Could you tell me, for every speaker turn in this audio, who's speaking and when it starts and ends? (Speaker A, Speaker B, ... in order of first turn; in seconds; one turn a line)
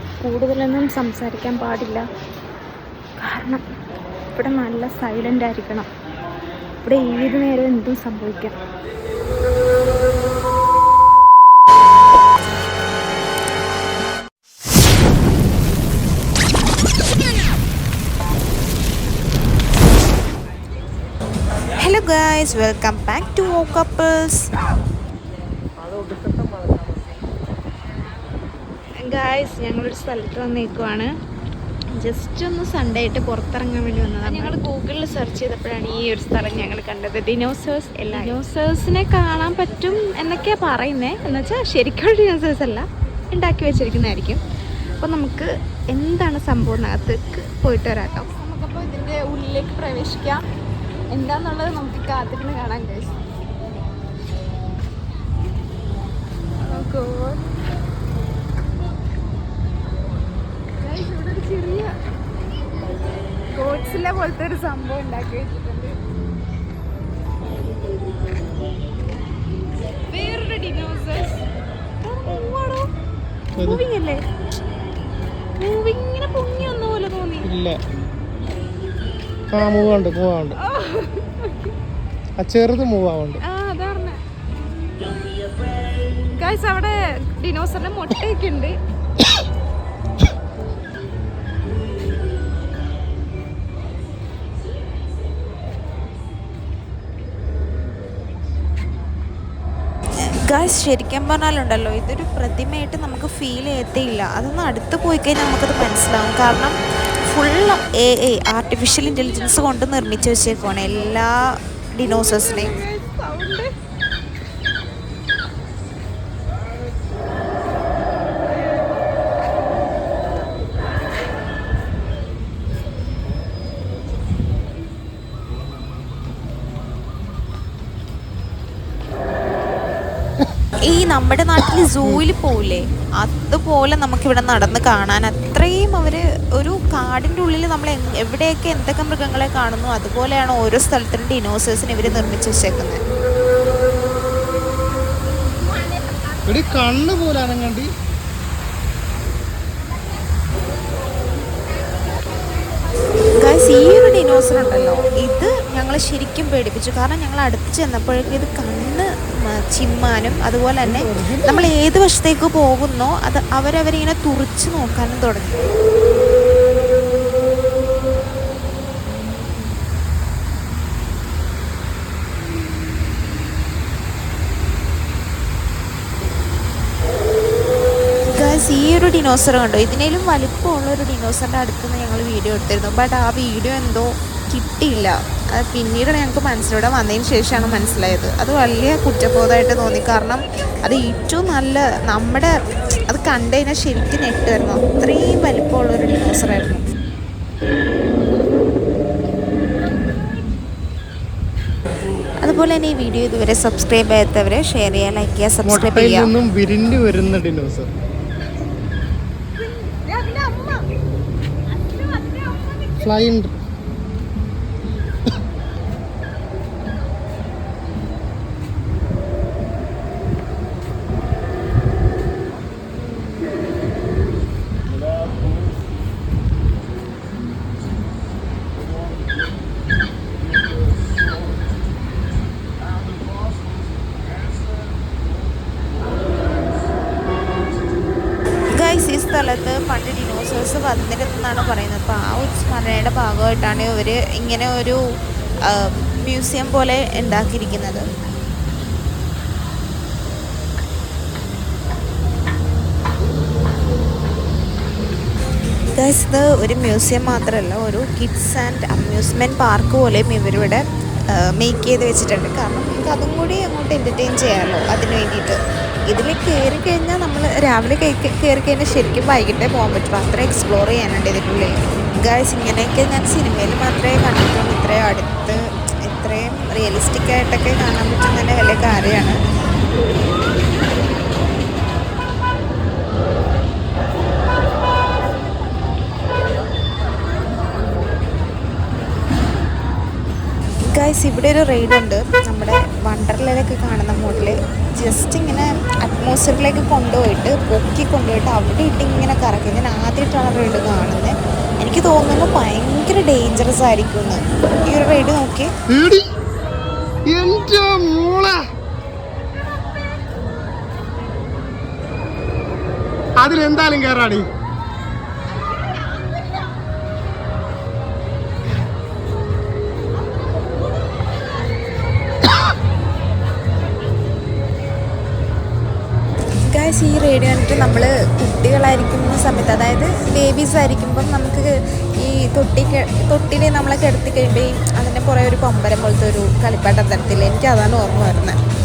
Speaker A: 0.2-2.0
Speaker A: 3.2-3.6
Speaker A: 4.3-5.9
Speaker A: 6.8-8.6
Speaker B: 21.8-24.5
Speaker A: 29.0-31.1
Speaker A: 31.9-44.4
Speaker B: 34.5-34.9
Speaker A: 45.0-50.4
Speaker A: 51.1-53.1
Speaker A: 56.6-57.5
Speaker A: 60.8-61.9
Speaker A: 63.5-66.0
Speaker A: 70.1-71.4
Speaker A: 72.0-72.9
Speaker C: 73.6-73.8
Speaker A: 73.6-74.2
Speaker A: 75.6-77.5
Speaker C: 77.4-77.8
Speaker C: 79.5-80.6
Speaker A: 80.6-81.6
Speaker C: 82.4-83.4
Speaker A: 83.4-84.2
Speaker A: 86.3-88.8
Speaker B: 100.3-106.8
Speaker B: 107.3-112.8
Speaker A: 112.0-113.7
Speaker B: 130.9-143.0
Speaker C: 146.5-147.9
Speaker B: 153.4-165.6
Speaker C: 160.8-161.7
Speaker B: 178.3-192.5
Speaker B: 193.1-196.8
Speaker B: 202.4-206.3
Speaker C: 205.6-207.9
Speaker A: 209.6-210.8
Speaker A: 211.7-212.9
Speaker C: 213.0-213.5
Speaker B: 238.8-245.0
Speaker B: 245.7-248.1
Speaker B: 256.0-279.4
Speaker B: 290.9-305.7
Speaker C: 305.9-306.3
Speaker C: 307.3-308.6
Speaker C: 313.4-314.5
Speaker B: 326.7-338.6